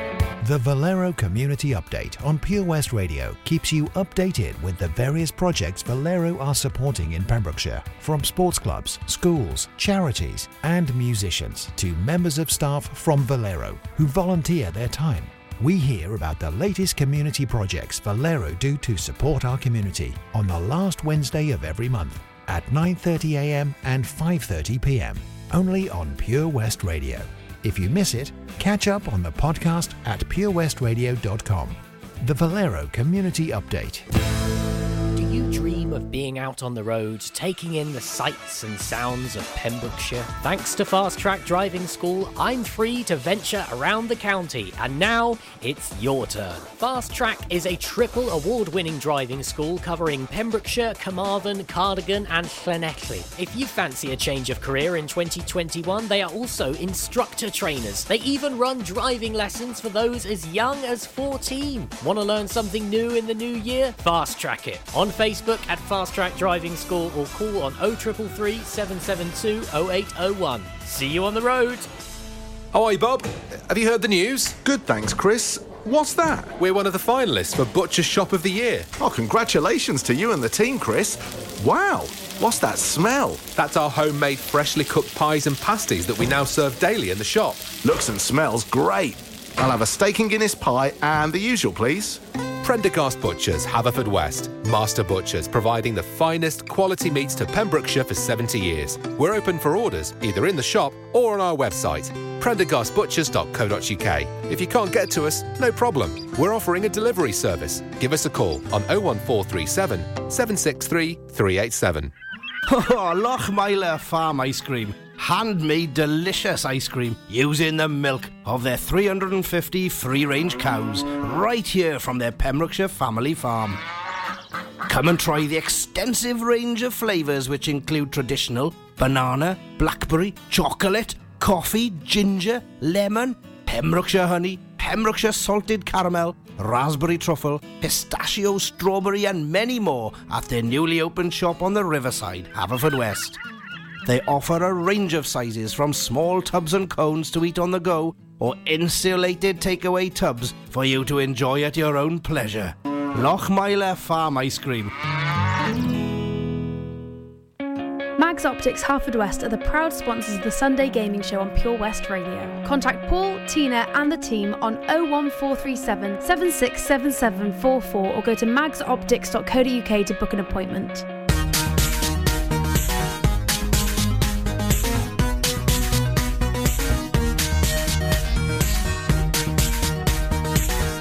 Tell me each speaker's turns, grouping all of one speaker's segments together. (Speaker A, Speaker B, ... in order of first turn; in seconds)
Speaker A: 0.4-34.0
Speaker B: 35.1-71.9
Speaker C: 72.7-78.9, 83.4-87.7, 92.6-112.1
Speaker D: 74.7-75.4, 79.2-81.1, 81.7-83.4, 88.0-88.7
Speaker E: 112.7-123.8, 124.8-143.4, 144.0-154.9
Speaker F: 158.2-171.0